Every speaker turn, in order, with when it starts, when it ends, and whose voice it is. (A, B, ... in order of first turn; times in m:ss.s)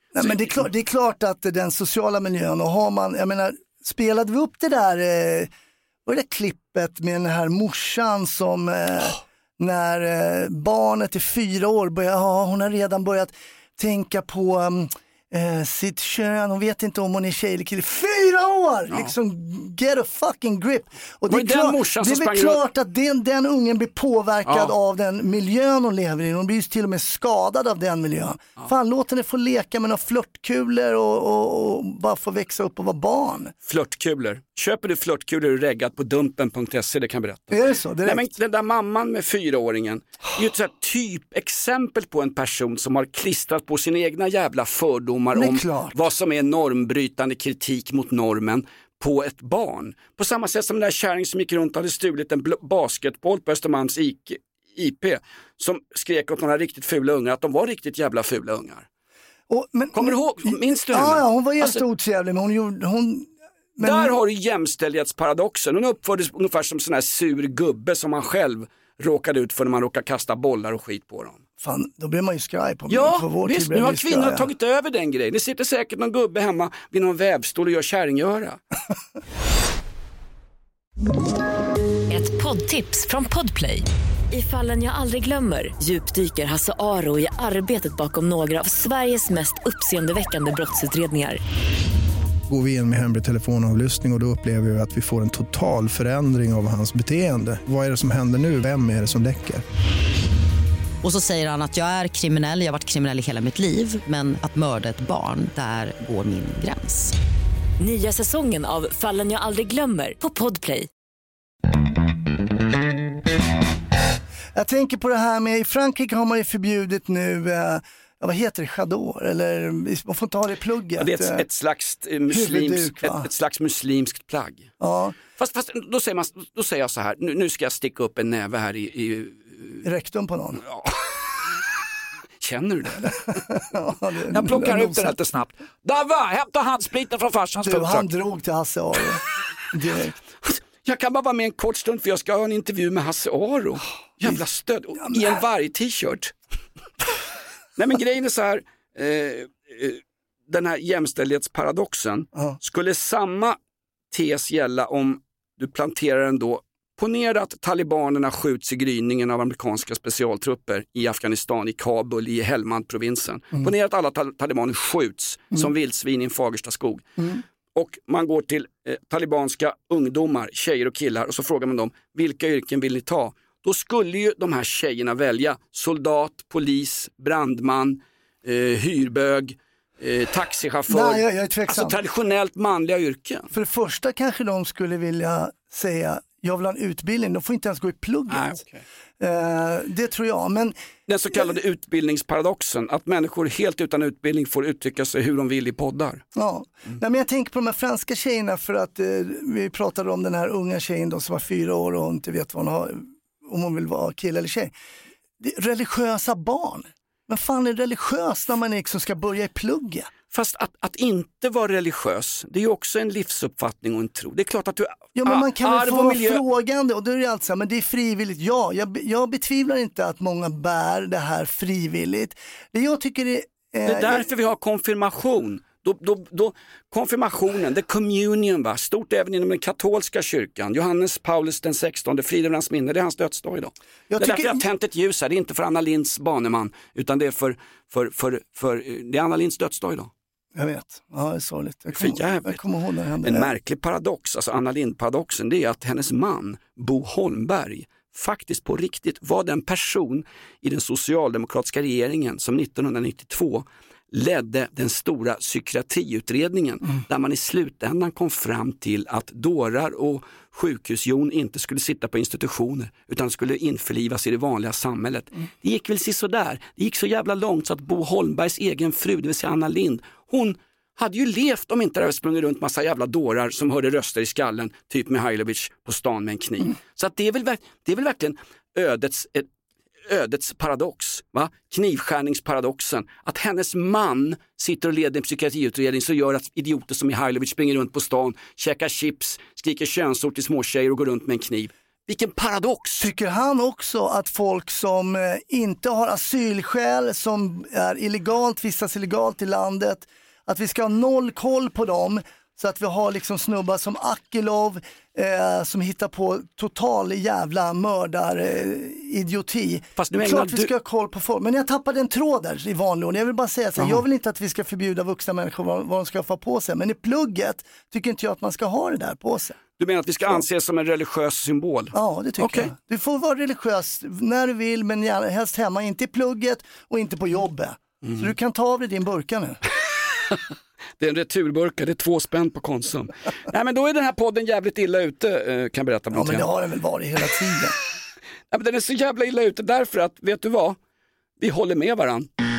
0:00.1-0:05.5 A
0:00.2-0:00.7 B
0:06.1-0:33.5 A
0:21.3-0:22.6 B
0:24.5-0:24.7 B
0:33.6-0:58.9 B
0:37.5-0:38.3 A
0:45.3-0:46.1 A
0:59.5-1:04.2 A
0:59.9-1:01.8 B
1:03.8-1:11.4 B
1:11.6-1:14.5 A
1:12.9-1:18.6 B
1:22.1-1:31.4 C
1:32.5-1:39.6 D
1:41.0-1:47.1 E
1:47.8-1:50.9 C
1:54.5-2:01.5 A
2:01.0-2:04.7 B
2:02.3-2:03.3 A
2:04.8-2:05.2 A
2:05.4-2:09.8 B
2:09.8-2:10.6 A
2:10.6-2:11.3 B
2:12.4-2:13.4 B
2:13.1-2:15.2 A
2:14.3-2:18.1 B
2:17.6-2:20.2 A
2:20.4-2:26.3 B
2:25.0-2:25.4 A
2:27.8-2:33.6 B
2:34.1-2:47.1 B
2:47.8-3:03.5 B
3:00.9-3:02.0 A
3:03.5-3:08.6 A
3:08.3-3:08.8 B
3:09.2-3:10.8 A
3:11.1-3:16.2 B
3:16.4-3:24.7 A
3:25.4-3:30.1 A
3:30.3-3:36.4 B
3:35.2-3:44.2 A
3:43.8-4:00.1 B
3:54.1-3:54.6 A
4:00.6-4:03.5 A
4:01.9-4:02.6 B
4:03.2-4:39.5 B
4:40.1-4:53.1 B
4:53.0-5:19.6 A
5:10.0-5:10.7 B
5:19.8-5:22.7 B
5:21.9-5:29.6 A
5:31.0-5:36.5 B
5:36.1-5:37.8 A
5:38.5-5:40.8 B
5:41.4-5:42.3 B